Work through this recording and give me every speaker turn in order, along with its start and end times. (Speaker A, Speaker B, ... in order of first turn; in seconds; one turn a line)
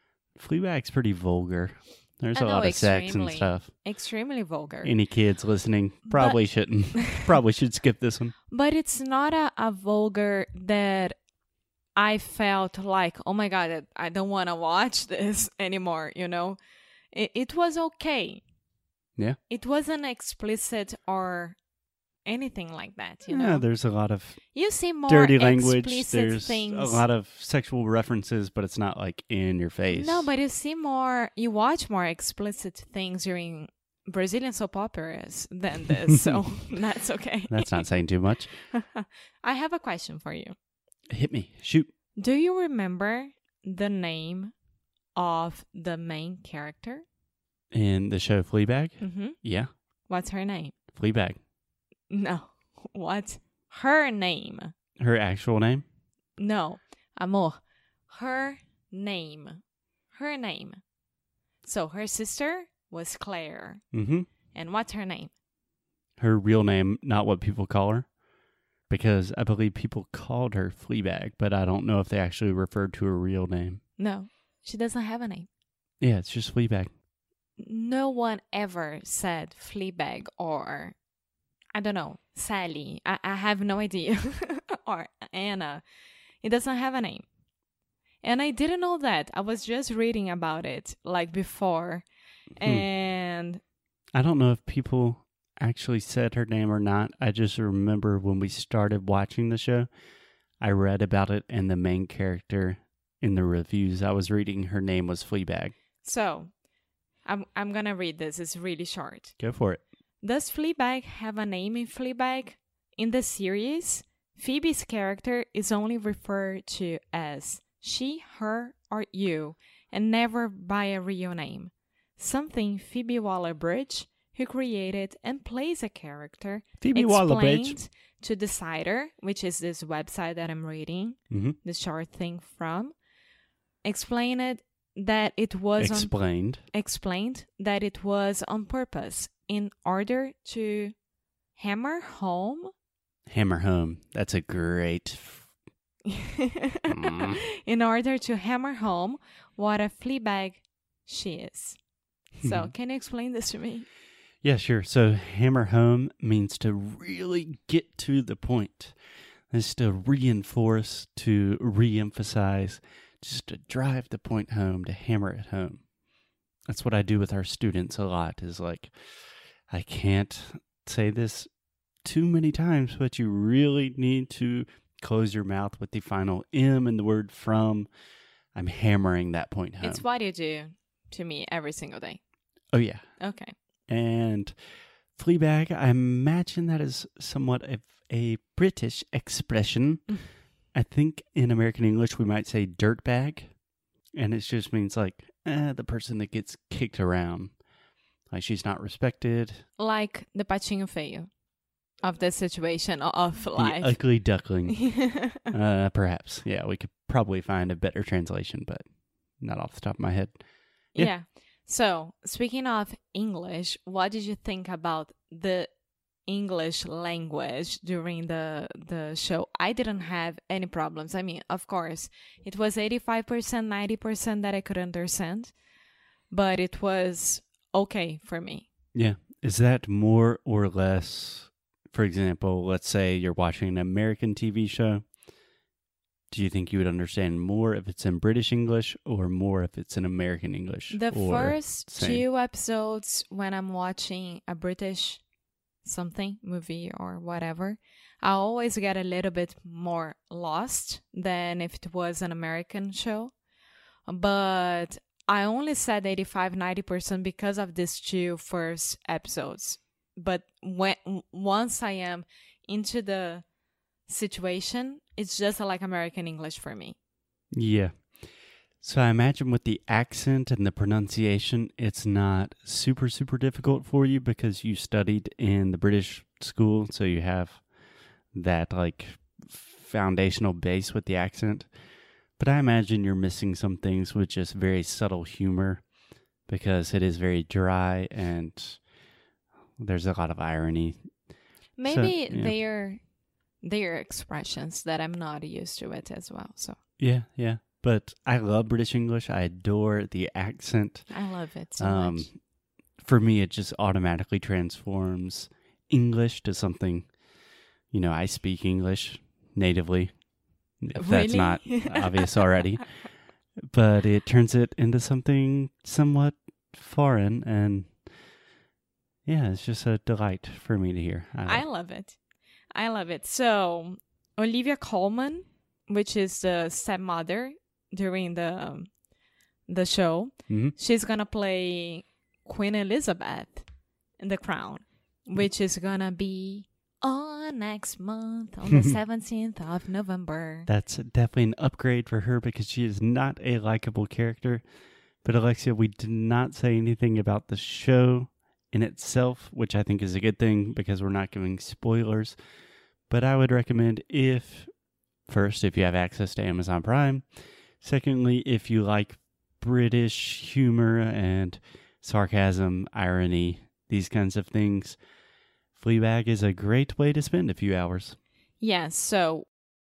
Speaker A: 0.3-3.7
Speaker B: 2.3-4.9
Speaker A: 4.8-8.3
Speaker B: 6.1-7.2
Speaker B: 8.5-11.2
Speaker B: 11.9-16.6
Speaker B: 17.1-18.4
Speaker B: 19.5-21.6
Speaker B: 22.2-23.6
Speaker A: 23.3-24.4
Speaker B: 24.5-27.0
Speaker A: 25.1-30.3
Speaker B: 29.9-37.9
Speaker A: 37.5-38.6
Speaker B: 38.7-40.5
Speaker A: 41.1-41.9
Speaker B: 42.2-44.5
Speaker B: 45.1-47.0
Speaker A: 47.7-49.7
Speaker B: 49.0-49.4
Speaker B: 50.1-50.7
Speaker A: 50.9-51.4
Speaker B: 52.1-54.7
Speaker A: 55.0-55.8
Speaker B: 56.4-59.6
Speaker B: 60.1-60.8
Speaker B: 61.6-63.8
Speaker A: 63.9-64.3
Speaker B: 64.5-65.3
Speaker A: 66.2-68.1
Speaker A: 68.9-73.8
Speaker B: 74.0-75.5
Speaker A: 76.0-76.9
Speaker B: 77.6-81.0
Speaker B: 81.7-85.8
Speaker B: 86.4-87.2
Speaker B: 88.2-92.0
Speaker B: 92.6-93.6
Speaker A: 94.1-99.9
Speaker A: 100.6-105.7
Speaker B: 106.0-106.5
Speaker B: 107.2-109.4
Speaker A: 109.4-109.8
Speaker B: 110.2-132.9
Speaker A: 126.8-127.8
Speaker A: 131.3-131.6
Speaker B: 133.8-136.2
Speaker A: 135.8-136.6
Speaker B: 136.7-140.9
Speaker B: 141.6-142.7
Speaker A: 143.3-145.5
Speaker B: 146.1-151.8
Speaker A: 146.9-147.4
Speaker B: 152.4-153.9
Speaker A: 152.4-152.7
Speaker A: 154.4-158.9
Speaker A: 159.5-165.8
Speaker A: 166.7-168.9
Speaker A: 169.7-171.5
Speaker A: 172.0-177.9
Speaker A: 178.5-180.0
Speaker B: 179.8-182.2
Speaker A: 182.7-183.0
Speaker B: 183.2-183.5
Speaker A: 183.9-184.5
Speaker A: 185.1-190.0
Speaker A: 190.7-193.5
Speaker A: 194.1-197.6
Speaker A: 198.3-199.6
Speaker B: 199.8-201.3
Speaker B: 202.0-205.4
Speaker A: 203.6-208.8
Speaker A: 209.4-210.4
Speaker B: 210.9-215.7
Speaker B: 216.3-225.5
Speaker B: 226.3-228.7
Speaker A: 228.9-235.0
Speaker A: 236.3-242.2
Speaker B: 240.9-245.2
Speaker B: 245.8-253.3
Speaker B: 254.1-263.4
Speaker B: 264.1-266.9
Speaker A: 267.5-268.2
Speaker A: 268.8-277.6
Speaker A: 278.3-281.7
Speaker A: 282.4-285.8
Speaker A: 286.5-288.8
Speaker A: 289.8-291.1
Speaker B: 291.8-293.0
Speaker A: 291.9-292.5
Speaker B: 293.6-296.8
Speaker A: 297.0-301.1
Speaker B: 301.1-302.3
Speaker A: 301.8-302.4
Speaker A: 303.0-307.1
Speaker A: 307.9-310.1
Speaker A: 310.8-312.9
Speaker B: 310.9-312.3
Speaker A: 313.7-318.0
Speaker A: 319.2-321.6
Speaker B: 321.4-322.2
Speaker B: 322.7-328.9
Speaker B: 329.7-333.7
Speaker A: 330.5-330.7
Speaker B: 334.2-340.7
Speaker A: 340.7-344.6
Speaker A: 345.2-352.4
Speaker A: 353.1-354.7
Speaker A: 355.3-357.2
Speaker A: 357.8-365.0
Speaker A: 365.7-368.2
Speaker B: 368.6-369.5